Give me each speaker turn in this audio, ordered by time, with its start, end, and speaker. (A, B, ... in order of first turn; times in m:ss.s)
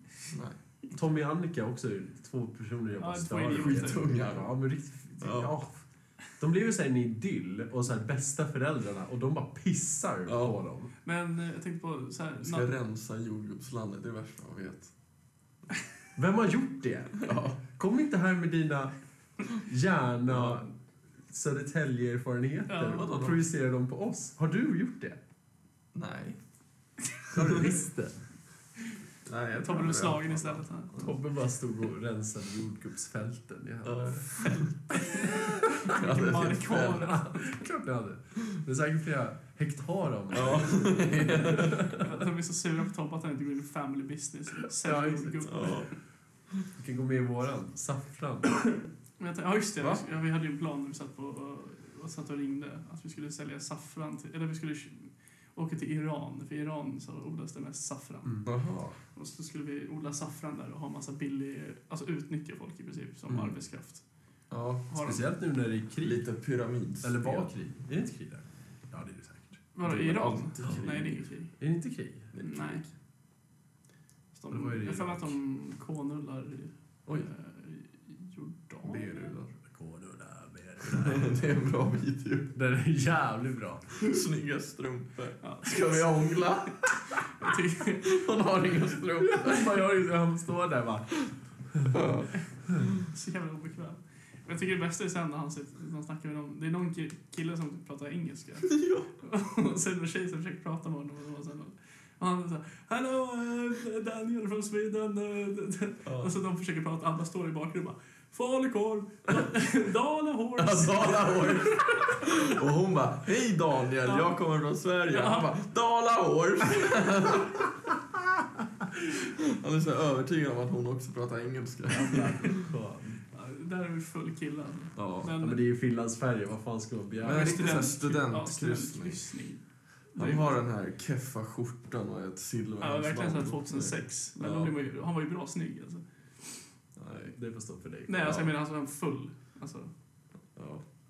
0:00.3-0:00.6 A
0:00.9-0:10.9 B
0:03.0-0:04.1 C
0:03.5-0:04.5 A
0:05.2-0:05.5 A
0:10.3-0:10.6 A
0:11.0-0:12.7 C
0:12.4-0:14.9 A
0:16.2-0:18.9 B
0:17.2-0:17.6 A
0:19.5-0:20.7 B
0:20.3-0:20.6 A
0:21.3-0:25.2 B
0:22.7-0:23.2 C
0:22.9-0:23.5 A
0:25.9-0:26.4 A
0:27.3-0:28.2 B
0:27.4-0:27.7 A
0:29.2-0:31.1 A
0:29.6-0:31.0 C
0:31.0-0:34.6 B
0:33.8-0:34.8 A
0:35.1-0:36.0 B
0:35.1-0:37.3 C
0:35.9-0:37.3 A
0:37.0-0:42.1 B
0:40.3-0:42.1 A
0:41.9-0:45.9 C
0:44.8-0:45.7 B
0:45.4-0:45.9 A
0:46.8-0:48.9 B
0:49.2-0:58.4 C
0:58.4-0:59.0 A
0:59.2-1:04.0 C
1:03.3-1:03.6 B
1:04.5-1:05.0 A
1:04.9-1:05.2 C
1:05.0-1:06.2 B
1:06.0-1:07.5 A
1:07.0-1:09.6 B
1:09.8-1:11.6 C
1:09.8-1:11.2 A
1:11.6-1:12.3 B
1:12.3-1:12.9 A
1:12.4-1:12.8 C
1:14.4-1:19.4 C
1:14.5-1:15.4 B
1:18.8-1:19.5 A
1:19.6-1:21.5 B
1:20.9-1:22.5 A
1:22.6-1:24.0 B
1:23.9-1:29.8 A
1:25.4-1:26.5 C
1:27.0-1:28.2 C
1:29.1-1:32.0 B
1:31.9-1:32.9 A
1:33.0-1:51.8 C
1:38.6-1:39.1 A
1:46.0-1:46.3 A
1:50.6-1:57.8 A
1:54.0-1:54.3 C
1:55.1-1:55.5 C
1:59.1-2:02.6 A
2:01.9-2:03.2 B
2:03.3-2:05.6 C
2:05.0-2:05.3 A
2:05.4-2:07.9 B
2:07.2-2:09.2 A
2:07.2-2:09.6 C
2:10.2-2:10.6 C
2:10.2-2:14.7 A
2:12.8-2:16.7 C
2:17.0-2:17.4 A
2:17.4-2:18.3 B
2:18.1-2:19.9 C
2:18.2-2:18.5 A
2:20.6-2:20.8 A